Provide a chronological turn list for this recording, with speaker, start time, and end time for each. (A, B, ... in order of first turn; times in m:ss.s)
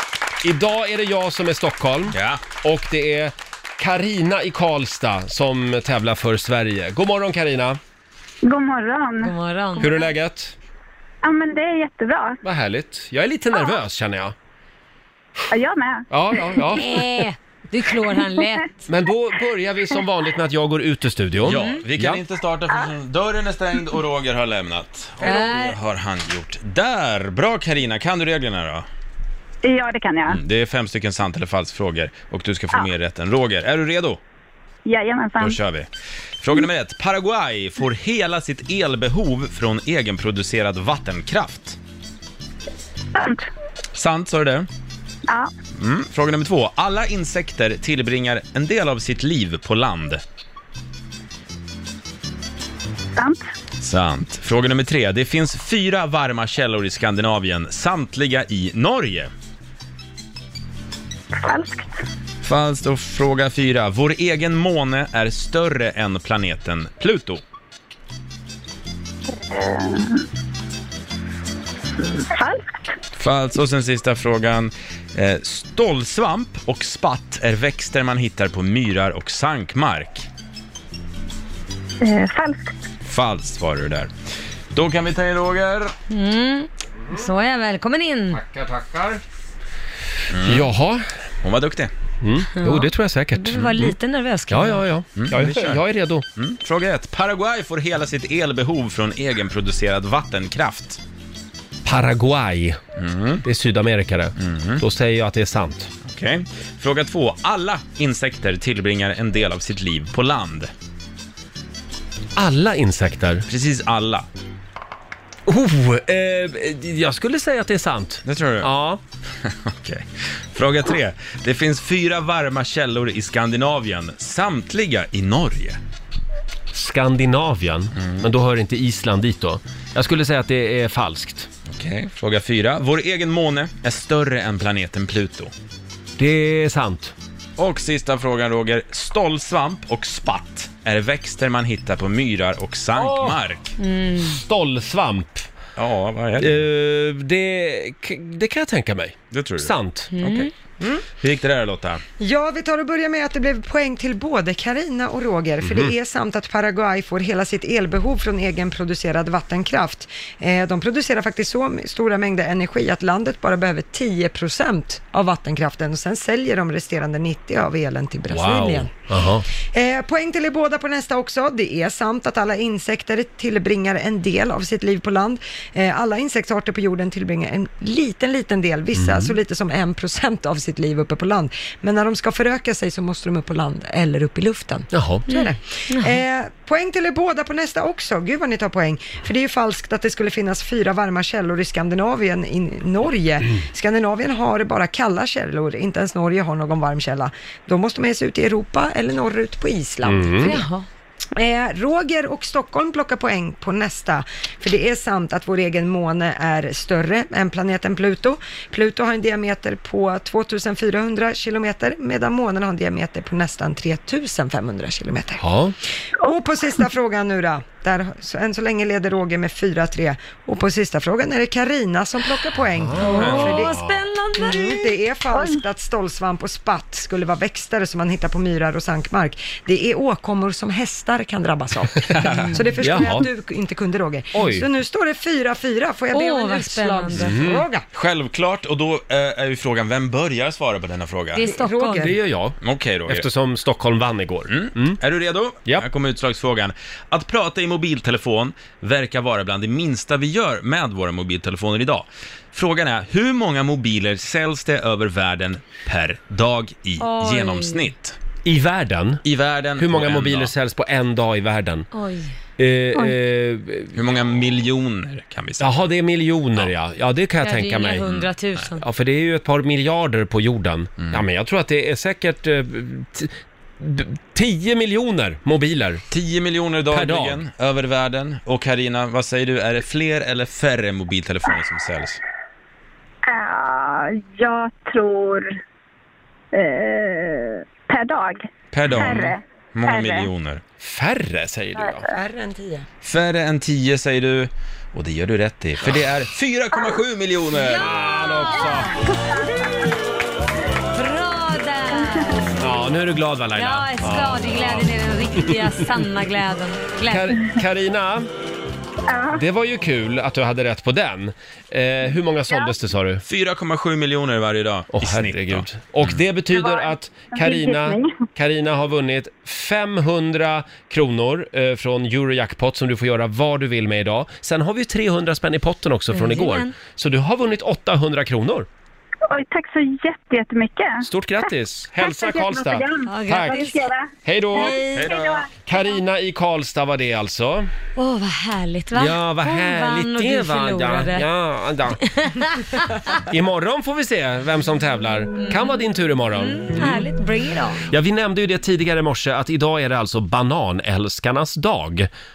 0:00.4-0:07.8 A
0:02.1-0:02.4 B
0:08.4-0:09.4 C
0:09.2-0:09.9 D
0:09.8-0:10.5 A
0:11.2-0:12.4 C
0:12.4-0:14.3 A
0:15.5-0:16.0 C
0:16.1-0:17.1 A
0:16.7-0:18.8 D
0:18.9-0:22.2 A
0:21.5-0:28.9 B
0:21.5-0:21.8 D
0:25.2-0:25.8 D
0:29.6-0:30.4 C
0:30.3-0:34.2 B
0:34.9-0:35.6 C
0:35.4-0:35.9 B
0:36.4-0:41.8 B
0:43.2-0:43.5 C
0:44.0-0:44.7 B
0:45.8-0:50.2 B
0:53.2-0:53.5 C
0:53.8-0:59.3 B
1:01.4-1:02.0 C
1:02.4-1:07.4 B
1:09.4-1:10.2 C
1:12.3-1:13.0 C
1:13.2-1:20.3 B
1:22.0-1:22.8 C
1:23.0-1:24.1 B
1:24.7-1:26.0 B
1:26.1-1:28.4 D
1:28.3-1:29.2 A
1:30.3-1:30.7 B
1:30.4-1:31.0 A
1:31.4-1:31.9 B
1:32.2-1:34.0 A
1:32.6-1:34.8 D
1:34.5-1:36.2 A
1:35.2-1:35.8 B
1:36.4-1:41.0 B
1:41.8-1:42.8 A
1:43.0-1:43.4 B
1:43.4-1:45.9 A
1:44.4-1:44.8 B
1:46.0-1:50.7 B
1:52.4-1:53.5 A
1:53.5-1:54.3 B
1:55.5-1:59.0 A
1:58.3-1:58.7 B
1:59.4-2:05.8 B
2:06.7-2:11.5 A
2:08.0-2:08.2 B
2:11.7-2:15.5 B
2:16.2-2:17.1 A
2:17.6-2:23.8 B
2:23.0-2:23.4 A
2:23.8-2:24.4 D
2:24.3-2:25.5 A
2:25.8-2:26.6 B
2:26.4-2:30.2 A
2:29.3-2:30.5 B
2:30.1-2:30.5 D
2:31.2-2:32.0 B
2:32.2-2:48.9 E
2:35.6-2:35.9 A
2:48.3-2:49.5 A
2:49.6-3:20.6 E
2:59.0-2:59.4 A
3:04.9-3:05.2 A
3:05.3-3:06.2 D
3:20.0-3:20.6 A
3:20.4-3:20.9 D
3:21.4-3:35.4 E
3:35.4-3:35.8 A
3:36.2-3:43.8 E
3:42.8-3:44.0 A
3:43.0-3:44.9 D
3:44.4-3:57.8 E
3:52.8-3:53.3 A
3:54.4-3:54.7 A
3:56.1-3:57.4 D
3:57.2-3:57.6 A
3:57.9-4:01.4 B
4:01.4-4:02.2 D
4:01.4-4:02.2 E
4:02.0-4:05.0 A
4:02.6-4:03.3 B
4:04.5-4:18.2 B
4:17.0-4:17.9 D
4:18.4-4:19.2 A
4:19.2-4:20.5 B
4:19.8-4:21.9 A
4:21.9-4:22.3 D
4:22.6-4:24.0 A
4:24.0-4:25.9 B
4:25.6-4:28.2 A
4:27.4-4:28.8 D
4:28.8-4:36.0 A
4:36.1-4:42.2 B
4:36.9-4:37.4 A
4:43.3-4:45.6 C
4:46.5-4:50.3 C
4:48.7-4:50.6 B
4:50.8-4:52.0 A
4:52.0-4:52.9 E
4:53.0-4:57.9 B
4:57.6-4:58.9 D
4:57.7-4:58.9 A
5:01.0-5:02.5 D
5:02.6-5:04.9 A
5:03.6-5:07.4 D
5:07.1-5:08.3 A
5:09.1-5:09.4 C
5:09.4-5:13.2 A
5:13.3-5:16.2 B
5:14.9-5:28.7 A
5:16.5-5:18.2 C
5:26.1-5:26.7 D
5:29.3-5:31.1 C
5:31.0-5:33.6 A
5:32.0-5:35.4 C
5:33.1-5:33.8 D
5:34.2-5:34.8 A
5:34.5-5:35.1 D
5:34.9-5:35.5 B
5:35.6-5:37.7 A
5:38.0-5:41.3 D
5:38.9-5:42.0 A
5:42.1-5:43.0 D
5:43.2-5:47.0 A
5:45.4-5:45.7 D
5:46.4-5:47.9 D
5:47.9-5:52.1 A